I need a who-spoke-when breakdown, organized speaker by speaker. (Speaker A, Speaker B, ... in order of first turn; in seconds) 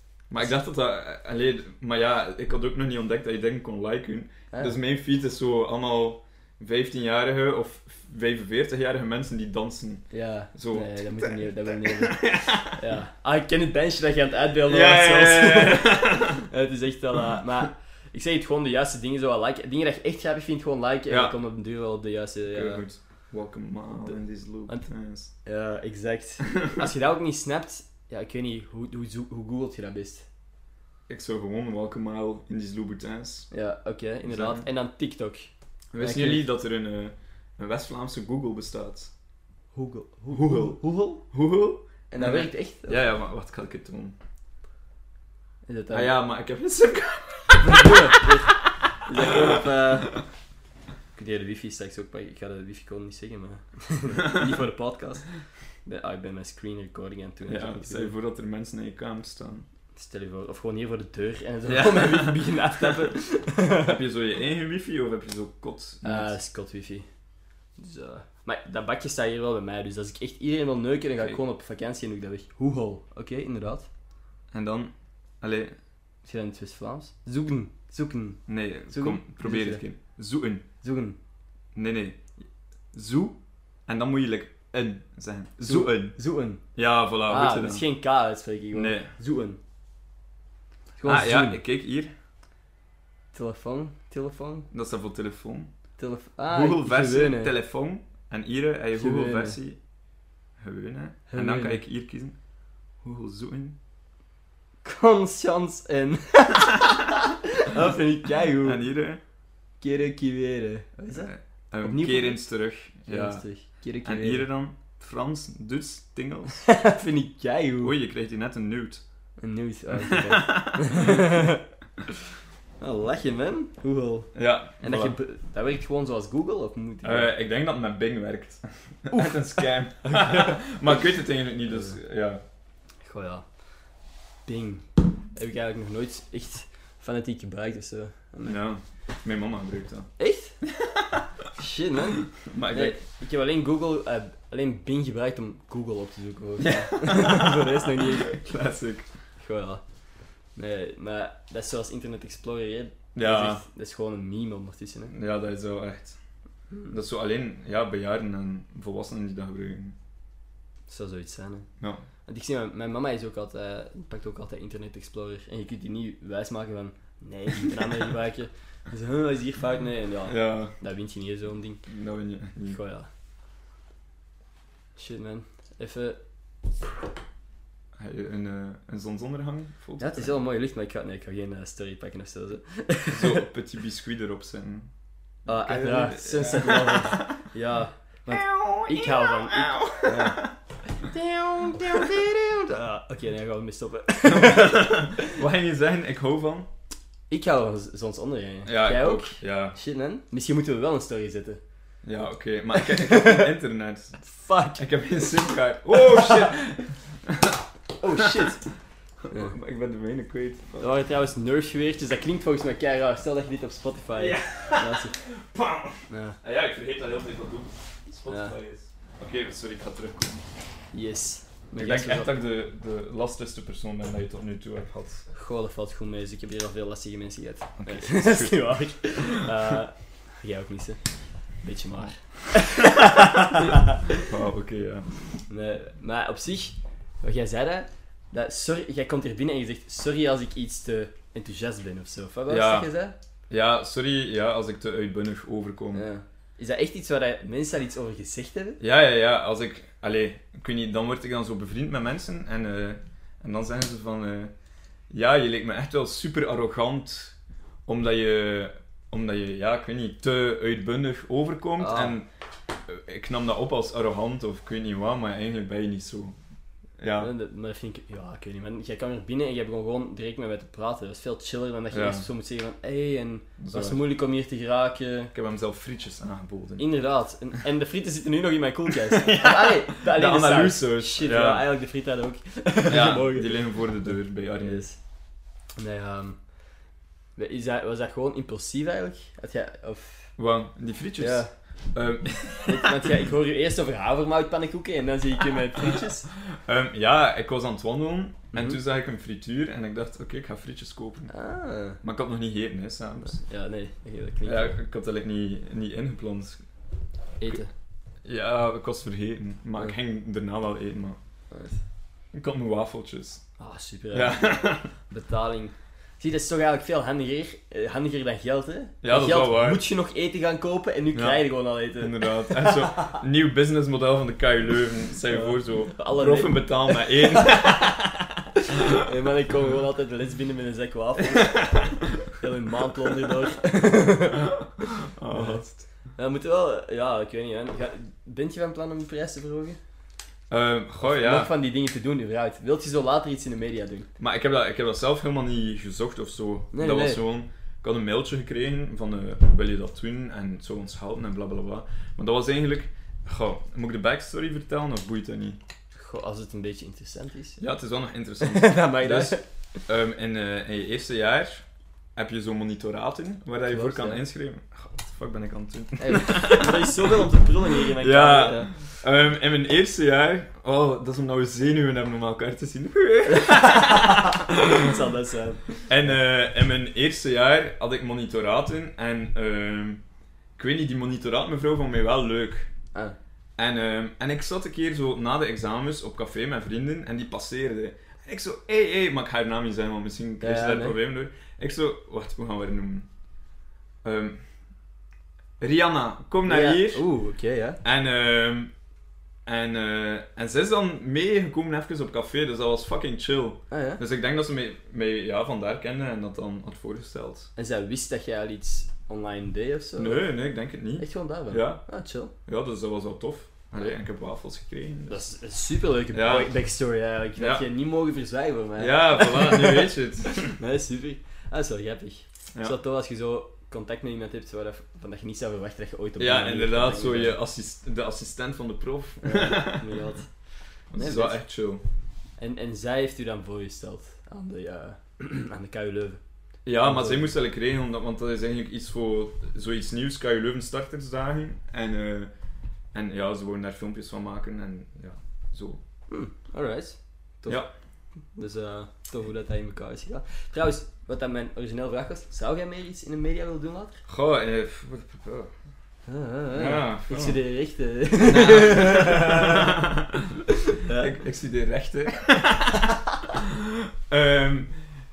Speaker A: 0.3-12.8, 14.7-16.4, 21.1-21.4, 22.5-25.3, 31.1-33.5, 34.2-34.7, 35.9-39.1, 40.3-44.2, 45.9-48.3, 49.3-49.6, 57.5-59.7, 61.7-62.9, 63.8-66.3, 74.5-75.8, 78.5-80.7, 81.8-82.2, 82.9-86.2, 86.8-87.8, 88.7-89.1, 91.0-92.1, 94.7-95.7, 96.5-99.8, 100.6-102.4, 103.0-103.8, 108.6-109.2, 111.1-113.4, 114.0-116.7, 117.8-119.0, 120.0-121.2, 124.3-125.2, 127.0-132.4, 138.4-140.1, 140.6-141.2, 142.4-143.0, 146.6-149.1, 153.2-153.6, 155.1-156.2, 156.9-160.0, 170.3-170.7, 171.9-172.8, 178.0-180.3, 183.1-184.9, 185.5-187.4, 188.3-190.5, 191.8-192.2, 194.2-196.7, 198.7-199.8, 202.0-204.2, 204.8-207.6, 208.2-208.4, 209.3-210.9, 214.2-220.4, 221.8-225.3, 227.8-228.7, 234.2-235.1, 242.5-242.9, 243.5-246.1, 248.8-254.5, 255.1-257.4, 257.9-262.3, 262.9-266.4, 267.0-267.3, 271.9-272.3, 273.6-274.0, 275.3-276.9, 279.0-281.7, 282.9-284.9, 290.4-293.1, 296.5-301.3, 302.0-303.4, 304.4-306.6, 308.2-311.2, 312.3-313.4, 314.1-314.9, 319.0-319.8, 321.1-328.0, 335.0-335.8, 340.5-341.5, 344.2-355.6, 357.6-367.0, 367.8-374.9, 375.9-380.0, 380.6-382.7, 383.6-393.1, 394.0-394.4, 395.6-397.0, 397.8-398.7, 399.5-407.5, 410.0-411.8, 412.5-415.2, 416.1-416.5, 417.4-417.6, 418.8-420.6, 426.2-429.9, 430.9-431.8, 436.6-442.3, 442.9-445.8, 454.1-455.5, 456.5-457.4, 458.2-460.3, 460.9-464.7
Speaker B: 10.1-22.8, 24.0-24.9, 25.4-30.3, 33.5-36.4, 39.7-41.2, 42.1-43.0, 45.7-46.1, 47.6-50.2, 51.1-55.3, 55.9-58.1, 60.0-64.0, 66.0-67.1, 67.8-73.9, 76.2-79.8, 80.8-81.2, 85.6-86.6, 87.3-89.6, 91.0-91.6, 93.3-94.7, 96.0-97.5, 99.0-99.6, 101.3-101.8, 104.8-108.8, 109.8-112.5, 113.0-114.5, 116.7-117.9, 119.4-121.6, 122.8-127.3, 129.1-130.7, 131.7-132.0, 133.1-133.4, 134.5-138.6, 140.2-140.6, 141.6-148.4, 149.4-149.8, 150.6-155.1, 160.9-161.7, 162.3-171.8, 172.7-173.1, 175.0-176.2, 180.0-183.4, 185.5-190.4, 191.0-195.3, 197.3-201.6, 202.8-203.5, 204.2-204.8, 206.0-206.5, 208.0-208.7, 210.8-215.2, 216.1-216.4, 218.3-218.6, 220.9-222.3, 225.3-231.0, 231.6-234.2, 235.5-243.2, 245.9-248.8, 261.8-262.2, 267.2-275.3, 276.8-283.8, 284.6-285.0, 285.8-286.4, 287.4-290.3, 291.2-291.5, 292.7-296.3, 298.5-298.8, 301.3-302.0, 303.2-304.8, 307.4-307.7, 311.5-311.8, 313.6-323.2, 325.3-339.8, 341.0-344.1, 346.7-347.2, 355.9-357.6, 358.4-359.8, 363.7-364.2, 366.0-368.7, 373.3-375.9, 390.4-391.0, 396.5-397.8, 403.7-404.0, 407.6-410.3, 411.0-412.3, 415.1-427.4, 429.2-430.3, 431.0-431.4, 432.4-436.2, 436.8-437.3, 446.1-447.6, 448.4-454.0, 456.1-459.8, 460.7-461.2